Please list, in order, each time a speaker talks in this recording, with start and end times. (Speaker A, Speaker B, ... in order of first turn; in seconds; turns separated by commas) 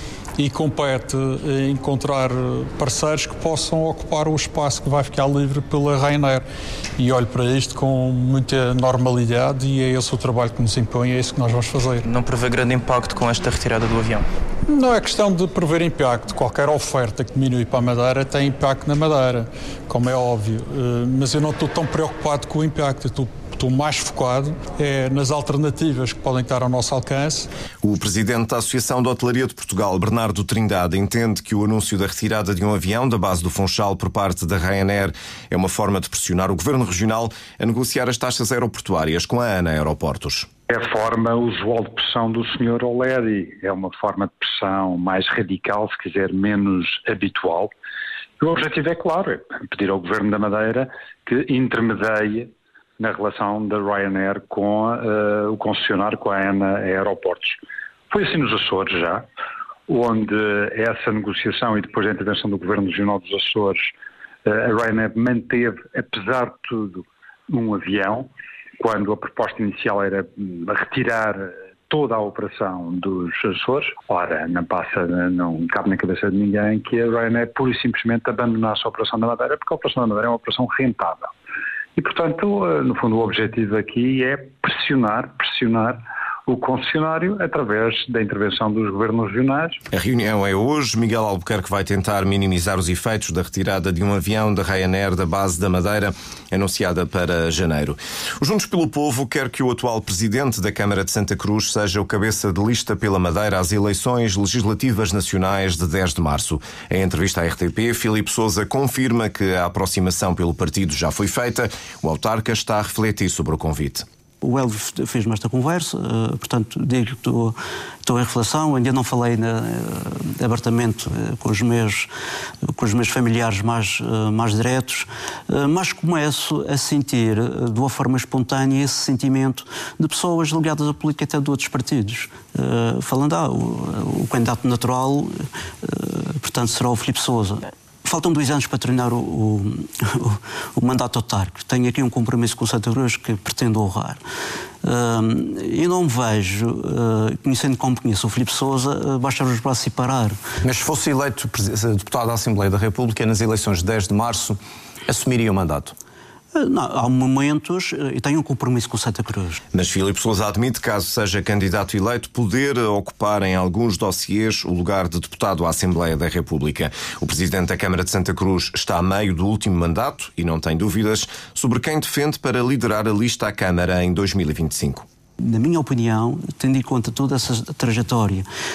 Speaker A: 0.4-6.5, Speaker A: 7.0-12.1, Speaker B: 12.0-14.2, Speaker A: 14.7-27.5, Speaker C: 27.8-40.5, Speaker D: 40.7-47.7, Speaker D: 48.4-59.2, Speaker D: 59.9-63.9, Speaker D: 64.4-81.3, Speaker D: 82.0-89.8, Speaker C: 89.9-114.0, Speaker E: 114.4-122.1, Speaker E: 122.8-144.2, Speaker E: 144.8-150.3, Speaker F: 150.6-155.9, Speaker E: 156.5-159.6, Speaker C: 159.7-175.0, Speaker E: 175.4-178.4